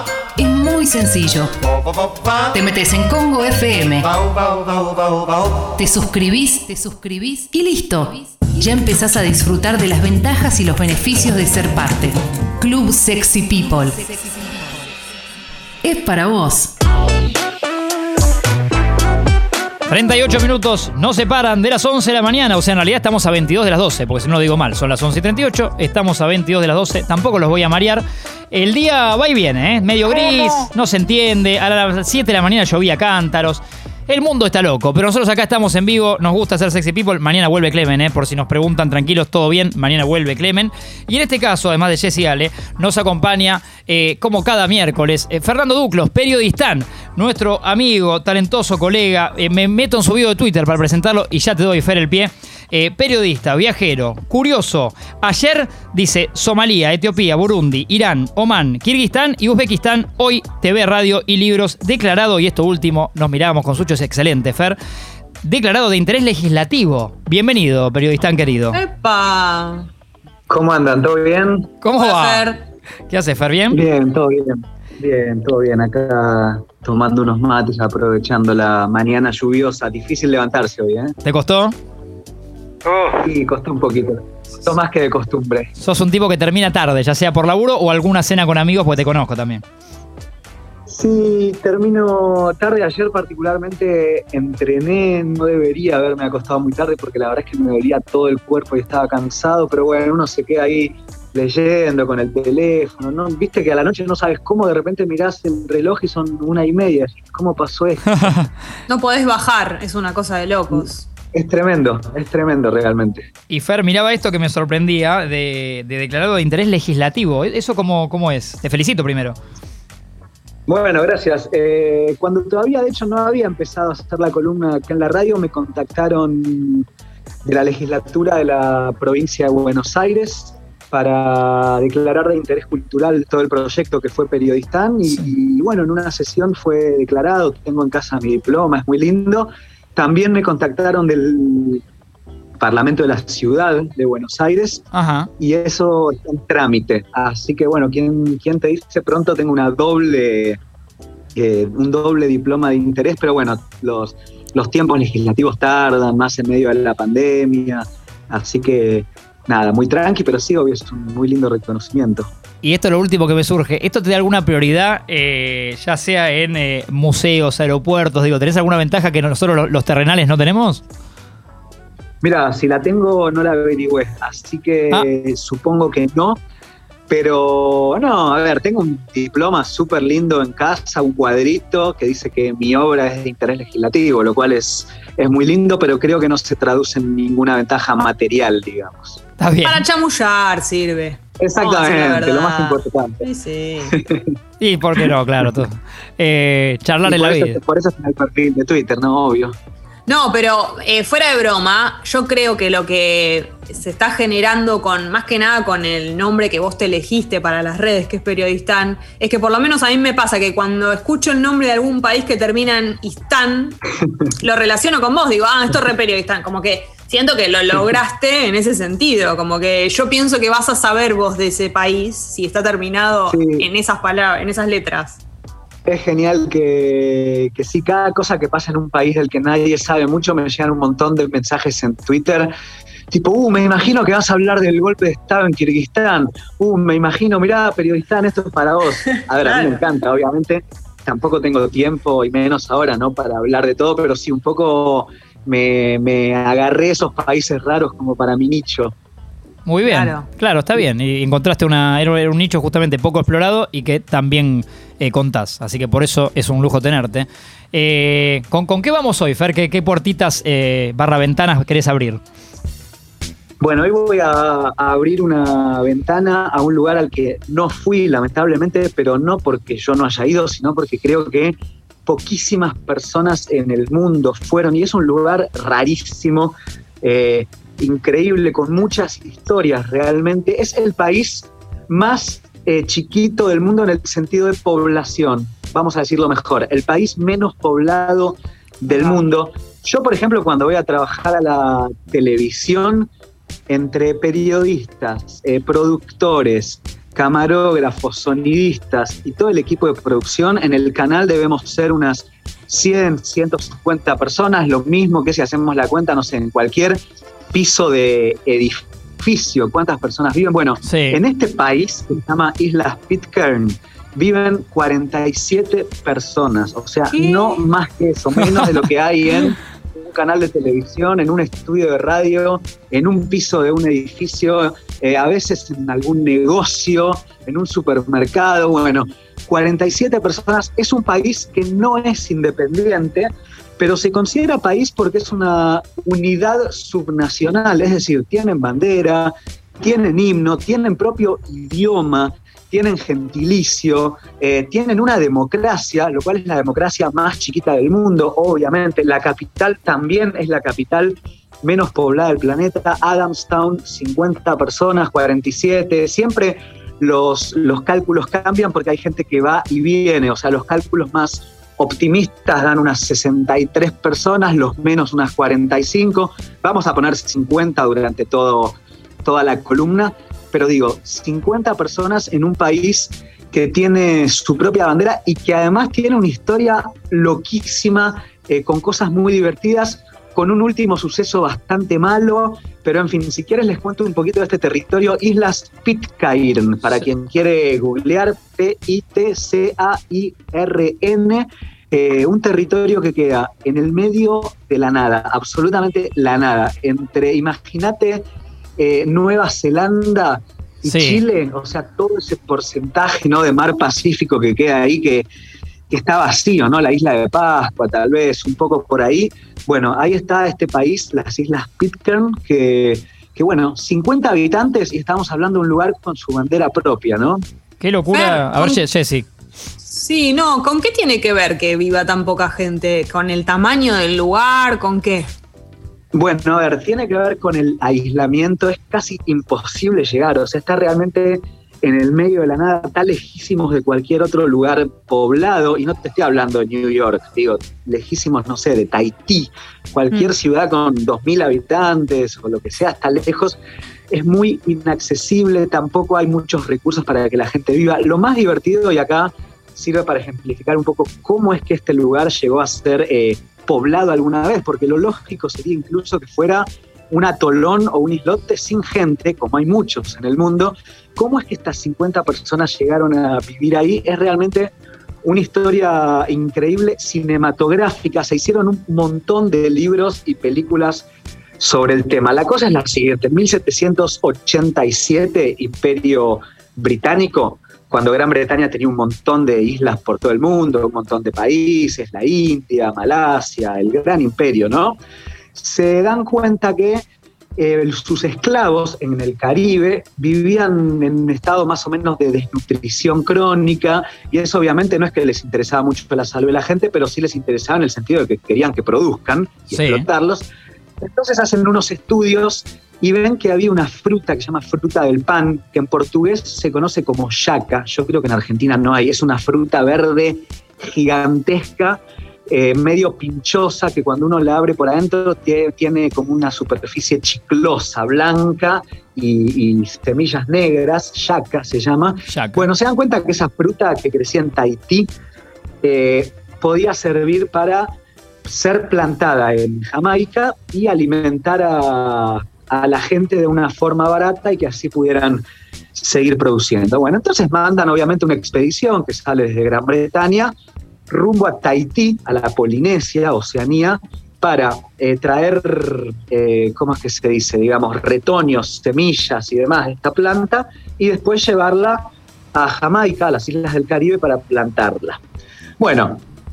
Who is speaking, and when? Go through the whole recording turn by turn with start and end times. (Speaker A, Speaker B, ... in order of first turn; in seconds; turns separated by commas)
Speaker A: 0.4-1.5, Speaker A: 2.5-4.2, Speaker A: 5.6-14.3, Speaker A: 15.8-16.8, Speaker B: 19.9-64.8, Speaker B: 65.4-68.8, Speaker C: 68.7-69.9, Speaker D: 70.5-71.7, Speaker B: 71.8-72.5, Speaker C: 72.0-72.6, Speaker B: 73.1-73.8, Speaker D: 73.7-81.2, Speaker B: 81.2-81.8, Speaker D: 83.0-85.7, Speaker B: 85.8-89.6, Speaker D: 90.9-108.4, Speaker B: 108.2-108.5, Speaker C: 108.9-111.0, Speaker D: 110.7-113.3, Speaker B: 113.5-119.4, Speaker D: 120.7-126.8, Speaker D: 127.4-141.8, Speaker D: 142.6-144.8, Speaker B: 144.9-145.3, Speaker D: 145.4-150.6, Speaker D: 151.3-162.3, Speaker B: 162.6-170.8, Speaker D: 172.2-176.4, Speaker D: 177.1-189.2, Speaker B: 189.4-189.8, Speaker C: 189.6-194.0, Speaker D: 191.4-193.2, Speaker D: 193.9-194.3, Speaker B: 194.6-197.6, Speaker D: 197.0-199.5, Speaker C: 200.1-213.8, Speaker C: 214.4-225.2, Speaker D: 223.3-223.7, Speaker D: 225.9-232.5, Speaker D: 233.1-248.9, Speaker C: 239.4-239.8, Speaker B: 249.7-262.2, Speaker C: 249.9-250.2, Speaker D: 263.6-293.1, Speaker C: 288.9-289.2, Speaker D: 293.7-307.0, Speaker D: 307.5-398.2, Speaker B: 310.8-311.2, Speaker C: 317.1-317.6, Speaker D: 398.8-405.2, Speaker B: 400.9-401.2, Speaker D: 405.9-417.4, Speaker B: 417.8-419.3, Speaker C: 418.1-418.8, Speaker C: 419.8-425.3, Speaker D: 426.1-443.6, Speaker D: 444.1-464.7, Speaker D: 465.2-471.1, Speaker D: 471.6-485.0, Speaker D: 485.5-487.0, Speaker D: 487.6-500.4, Speaker B: 499.7-500.0, Speaker D: 501.0-525.1, Speaker B: 522.3-522.6, Speaker D: 525.8-527.9, Speaker D: 528.4-540.5, Speaker D: 541.1-555.2, Speaker D: 555.8-556.2